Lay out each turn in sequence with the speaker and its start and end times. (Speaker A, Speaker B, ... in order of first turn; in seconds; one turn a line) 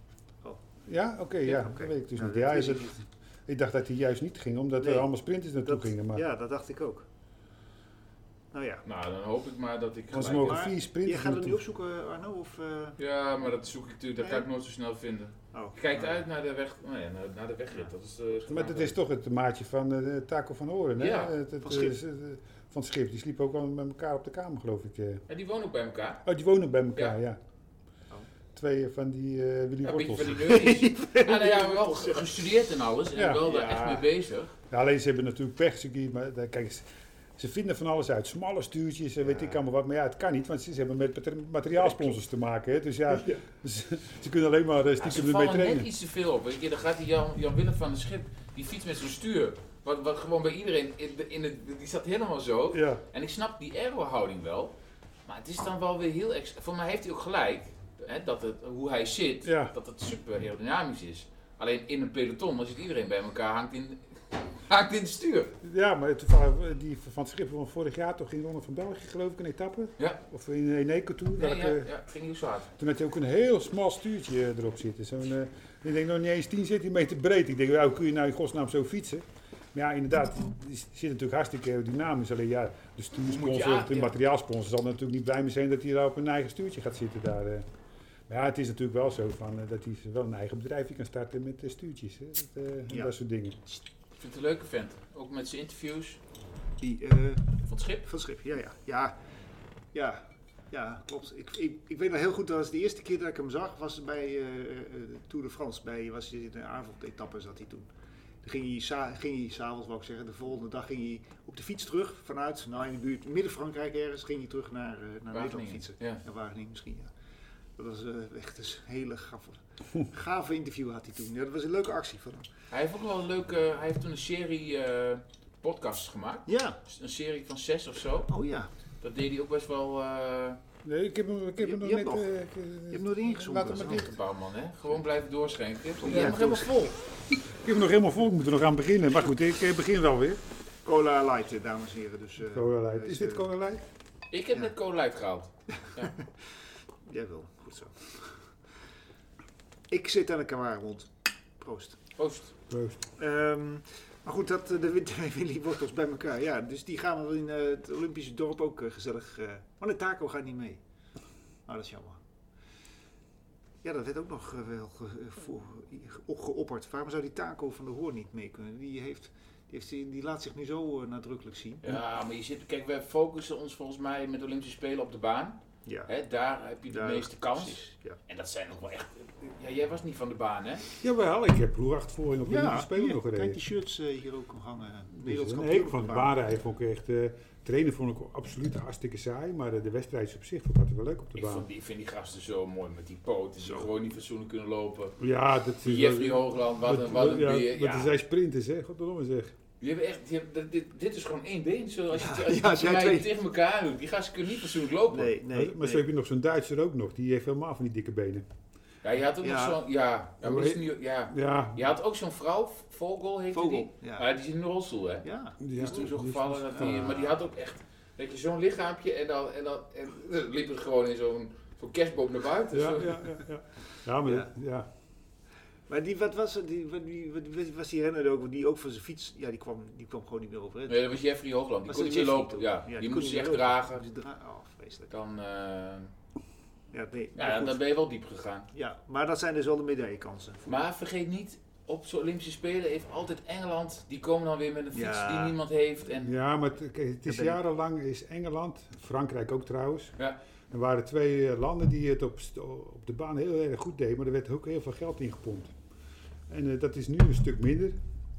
Speaker A: 0.9-6.2
Speaker B: 1.5-3.0
Speaker B: 4.8-5.1
Speaker B: 5.7-7.1
Speaker B: 8.5-8.8
Speaker C: 8.9-10.6
Speaker A: 10.1-11.6
Speaker B: 10.2-13.0
Speaker C: 13.0-19.0
Speaker B: 14.2-14.5
Speaker B: 15.5-16.2
Speaker A: 18.5-25.2
Speaker C: 21.0-21.9
Speaker C: 25.3-26.2
Speaker A: 26.2-27.4
Speaker A: 28.6-30.5
Speaker C: 29.8-34.5
Speaker B: 30.3-32.5
Speaker A: 33.1-33.5
Speaker B: 33.4-34.1
Speaker A: 34.7-45.9
Speaker B: 39.2-39.6
Speaker C: 45.0-54.7
Speaker A: 52.7-53.0
Speaker C: 55.3-65.5
Speaker A: 59.4-59.7
Speaker A: 65.6-71.9
Speaker C: 71.4-72.7
Speaker A: 72.8-87.7
Speaker C: 83.2-84.1
Speaker A: 88.3-93.6
Speaker C: 94.2-96.2
Speaker B: 96.8-97.5
Speaker C: 97.7-98.1
Speaker B: 98.0-99.2
Speaker B: 99.9-107.9
Speaker B: 108.4-117.1
Speaker C: 115.3-116.2
Speaker B: 117.8-122.5
Speaker C: 122.7-128.3
Speaker B: 126.5-126.8
Speaker B: 128.3-128.7
Speaker C: 129.0-130.6
Speaker A: 130.8-134.0
Speaker B: 131.6-132.3
Speaker B: 132.9-134.1
Speaker C: 133.6-137.0
Speaker B: 136.0-136.8
Speaker A: 137.5-140.4
Speaker B: 140.9-143.5
Speaker A: 142.5-143.9
Speaker C: 144.3-146.1
Speaker B: 145.8-146.3
Speaker B: 147.1-148.3
Speaker B: 149.9-152.0
Speaker C: 152.2-152.5
Speaker A: 152.7-153.0
Speaker B: 153.2-160.8
Speaker B: 161.7-162.2
Speaker B: 163.8-171.9
Speaker C: 171.8-180.8
Speaker B: 175.9-176.1
Speaker B: 176.9-178.2
Speaker A: 181.0-183.6
Speaker B: 182.4-186.3
Speaker A: 185.2-191.7
Speaker C: 191.4-195.2
Speaker B: 193.6-193.9
Speaker A: 195.2-199.6
Speaker C: 195.8-198.2
Speaker C: 199.8-205.3
Speaker B: 202.1-203.3
Speaker B: 205.1-206.1
Speaker A: 205.5-208.4
Speaker C: 209.0-223.3
Speaker B: 209.4-209.8
Speaker A: 210.4-211.9
Speaker B: 213.5-214.3
Speaker B: 215.2-216.1
Speaker A: 215.6-217.2
Speaker A: 222.7-224.9
Speaker B: 224.2-224.5
Speaker B: 225.9-231.1
Speaker C: 230.9-234.0
Speaker B: 231.9-235.1
Speaker C: 235.1-236.1
Speaker B: 236.9-237.8
Speaker C: 237.4-238.7
Speaker B: 238.7-240.7
Speaker C: 240.7-246.3
Speaker B: 244.9-245.6
Speaker A: 246.2-250.2
Speaker B: 247.3-247.6
Speaker A: 250.7-255.7
Speaker A: 256.5-258.0